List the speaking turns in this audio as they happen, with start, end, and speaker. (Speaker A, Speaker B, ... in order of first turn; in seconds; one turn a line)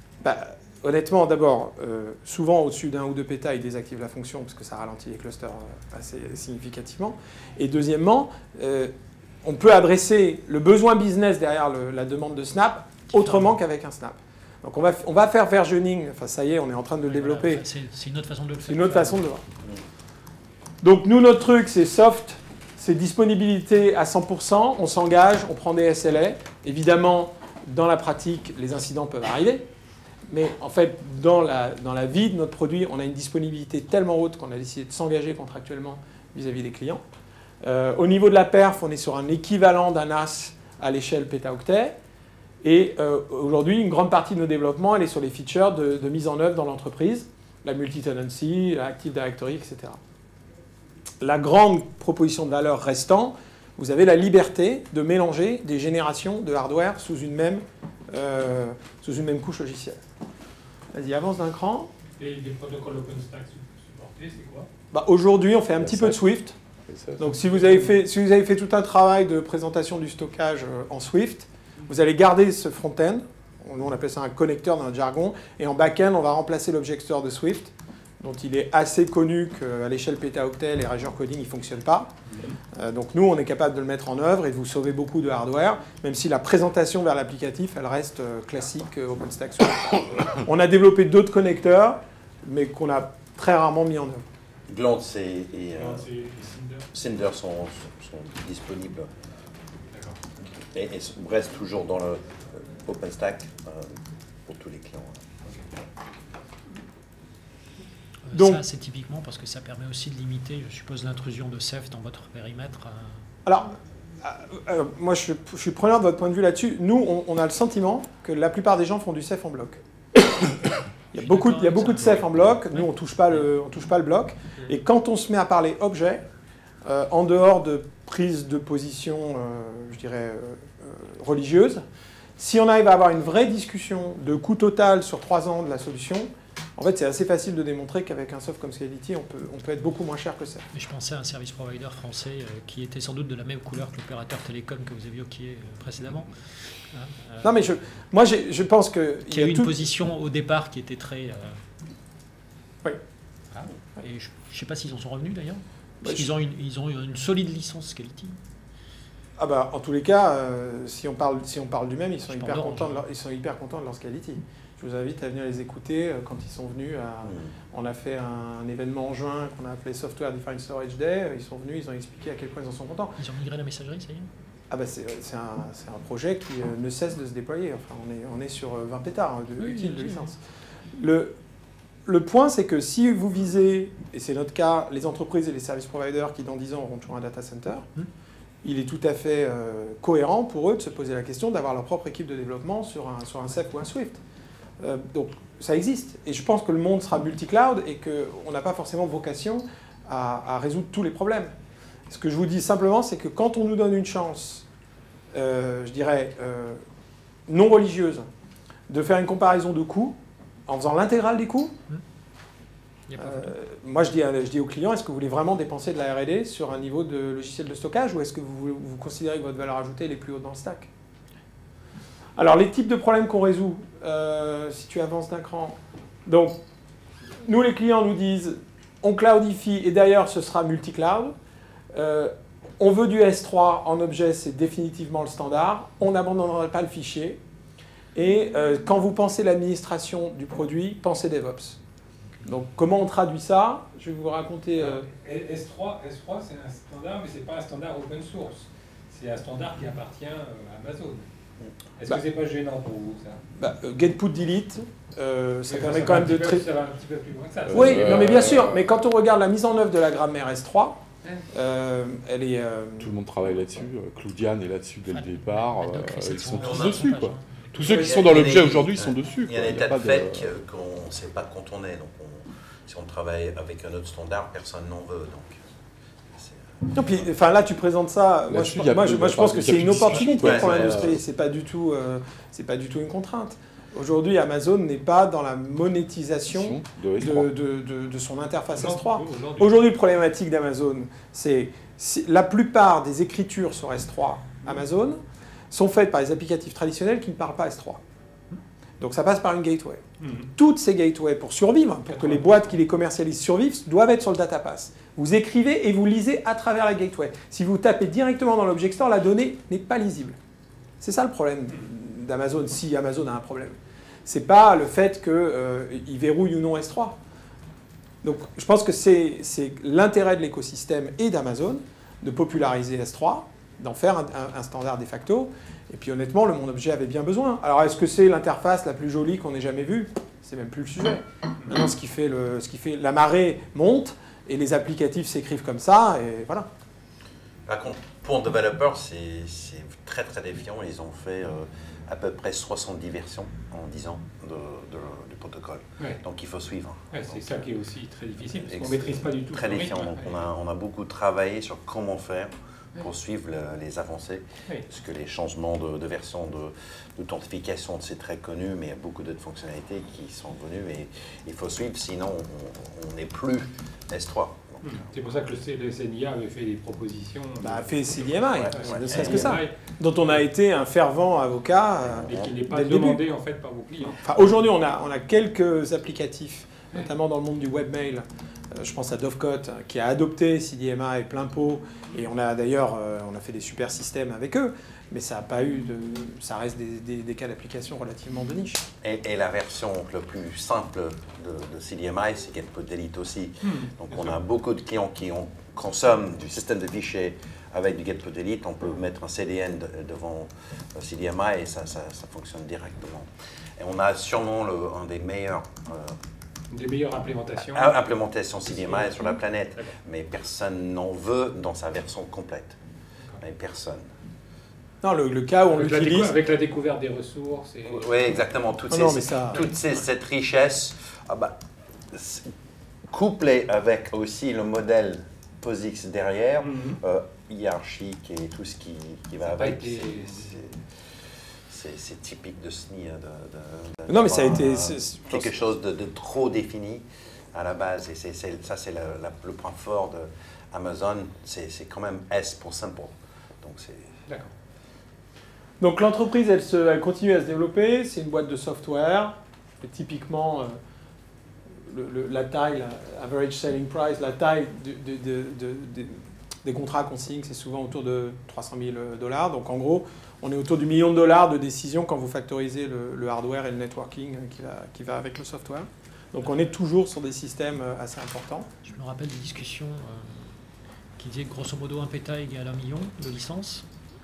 Speaker A: 0.2-17.6
Speaker B: 13.1-13.5
Speaker B: 17.1-19.3
Speaker A: 18.6-19.4
Speaker A: 20.8-29.7
Speaker A: 30.3-37.0
Speaker A: 37.6-42.0
Speaker A: 42.6-50.0
Speaker A: 51.2-60.0
Speaker A: 60.9-61.9
Speaker C: 62.2-64.7
Speaker A: 64.9-66.6
Speaker D: 65.8-66.2
Speaker D: 66.9-67.5
Speaker A: 67.2-82.2
Speaker A: 82.7-94.3
Speaker E: 94.7-96.1
Speaker C: 95.8-96.9
Speaker E: 96.9-99.1
Speaker C: 99.9-100.2
Speaker E: 100.7-105.3
Speaker B: 108.3-113.3
Speaker A: 108.3-108.6
Speaker A: 113.5-126.2
Speaker B: 121.2-122.9
Speaker A: 126.8-131.8
Speaker A: 132.4-140.7
Speaker B: 140.7-147.6
Speaker A: 147.4-149.8
Speaker B: 149.3-151.6
Speaker B: 153.5-158.4
Speaker A: 156.0-156.3
Speaker A: 159.4-173.2
Speaker B: 162.3-163.0
Speaker E: 167.2-167.5
Speaker B: 173.2-174.3
Speaker A: 174.7-180.4
Speaker B: 179.6-180.3
Speaker A: 180.9-181.4
Speaker A: 182.1-187.9
Speaker A: 188.6-194.2
Speaker A: 194.8-201.5
Speaker A: 202.1-204.7
Speaker A: 205.3-206.8
Speaker A: 207.5-208.3
Speaker A: 208.9-211.8
Speaker B: 213.1-213.5
Speaker A: 213.2-220.9
Speaker A: 222.4-226.6
Speaker A: 227.4-231.3
Speaker A: 231.9-237.4
Speaker A: 238.2-241.8
Speaker A: 242.5-245.1
Speaker C: 244.8-251.3
Speaker C: 252.0-253.4
Speaker A: 253.6-256.7
Speaker C: 255.7-258.3
Speaker D: 257.7-258.8
Speaker A: 257.7-263.1
Speaker D: 263.0-270.5
Speaker B: 265.1-267.9
Speaker E: 266.6-267.1
Speaker E: 267.8-275.6
Speaker E: 276.3-277.1
Speaker A: 276.9-298.0
Speaker D: 278.5-281.2
Speaker E: 280.2-281.1
Speaker D: 286.6-287.5
Speaker C: 288.8-289.8
Speaker A: 299.0-310.4
Speaker C: 300.2-300.5
Speaker C: 302.2-302.6
Speaker A: 311.0-317.2
Speaker A: 318.2-336.7
Speaker E: 337.7-347.7
Speaker C: 347.1-350.4
Speaker E: 348.4-365.0
Speaker C: 364.8-367.9
Speaker A: 367.6-373.2
Speaker E: 368.6-369.6
Speaker C: 368.7-369.8
Speaker C: 372.2-374.5
Speaker E: 372.3-372.6
Speaker A: 374.2-388.9
Speaker E: 389.0-406.2
Speaker C: 406.7-409.9
Speaker E: 407.6-412.8
Speaker E: 413.4-414.1
Speaker A: 415.0-416.4
Speaker C: 415.7-418.1
Speaker E: 417.9-421.6
Speaker A: 418.9-419.7
Speaker E: 422.1-422.5
Speaker E: 423.1-444.2
Speaker C: 426.6-427.0
Speaker C: 429.5-430.5
Speaker A: 434.1-435.5
Speaker C: 444.3-444.5
Speaker A: 445.8-450.8
Speaker A: 451.8-468.7
Speaker B: 468.9-470.6
Speaker B: 471.2-473.9